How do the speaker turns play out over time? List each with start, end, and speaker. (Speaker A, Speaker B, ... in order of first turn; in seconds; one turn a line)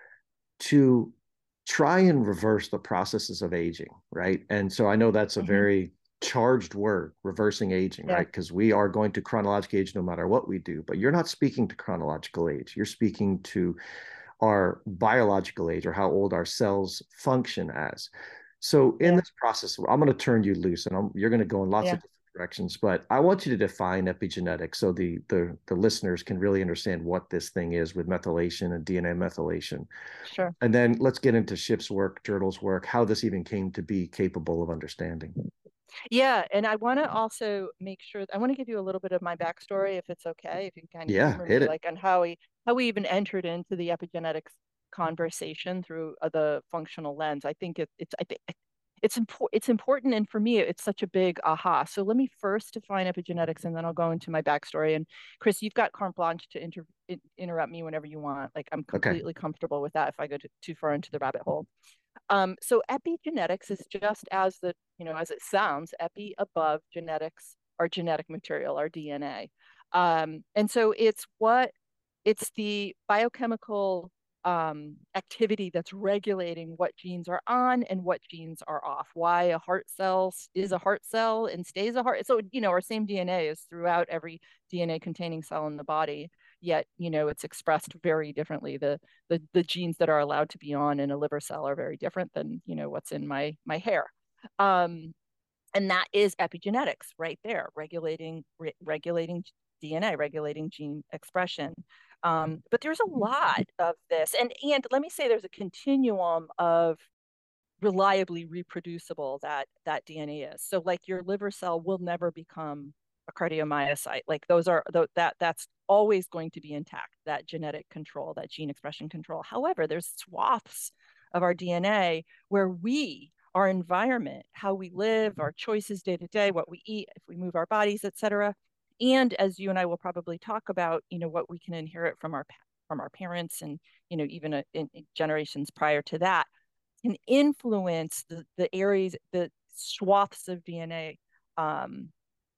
Speaker A: 0.6-13.8
Speaker B: 5.4-5.7
Speaker A: 14.4-18.1
Speaker A: 18.6-29.9
Speaker B: 30.3-30.6
Speaker A: 30.6-35.3
Speaker B: 36.1-61.7
Speaker A: 41.1-41.7
Speaker A: 58.9-59.2
Speaker B: 62.3-71.7
Speaker B: 72.2-95.1
Speaker B: 95.8-107.1
Speaker B: 107.8-136.5
Speaker B: 137.0-142.1